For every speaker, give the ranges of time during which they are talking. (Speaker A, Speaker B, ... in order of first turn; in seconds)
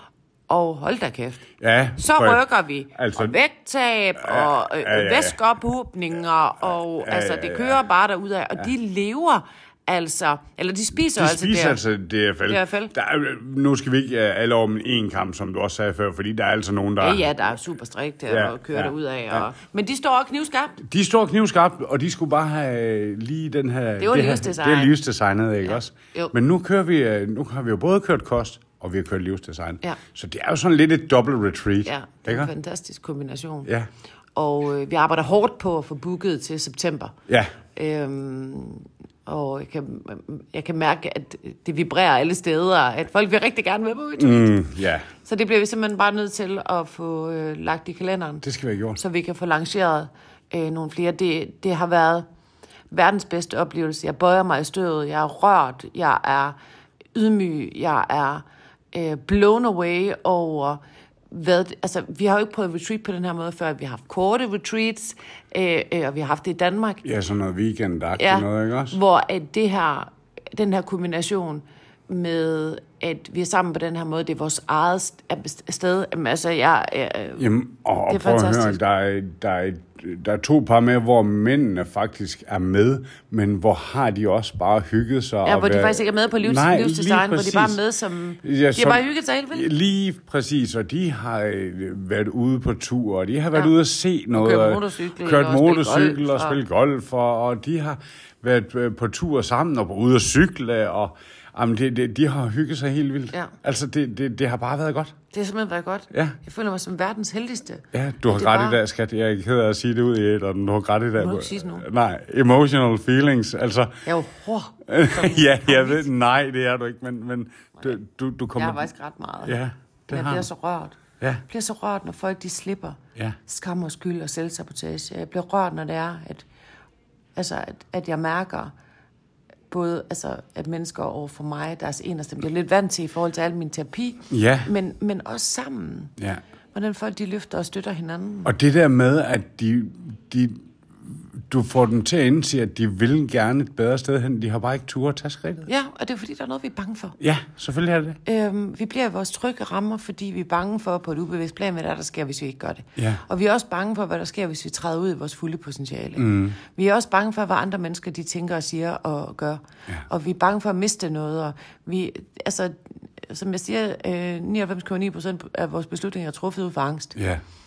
Speaker A: 0.5-1.4, 2.0-11.8, 12.5-12.9, 17.0-20.8, 24.0-25.0, 25.6-26.3, 31.9-33.7, 34.4-37.1, 37.8-44.6, 45.2-52.2, 52.9-56.6, 57.1-67.0, 68.2-77.5, 78.1-78.8, 85.5-89.7, 94.3-96.6, 105.3-108.8, 111.2-111.8, 114.0-116.1, 118.5-119.6, 120.1-126.5, 127.3-128.7, 129.7-136.1, 136.7-138.5, 145.7-147.2, 148.2-167.2
Speaker B: 1.6-2.4, 3.0-3.4, 4.2-5.4, 7.0-7.8, 11.0-17.3, 18.3-19.5, 20.8-32.5, 44.2-45.1, 48.4-49.0, 67.0-69.0, 77.4-87.8, 88.4-105.1, 106.1-106.4, 107.9-113.9, 114.9-118.8, 119.4-120.5, 134.3-134.7, 138.4-145.7, 147.2-148.2, 153.0-153.2, 156.2-156.6, 167.2-167.4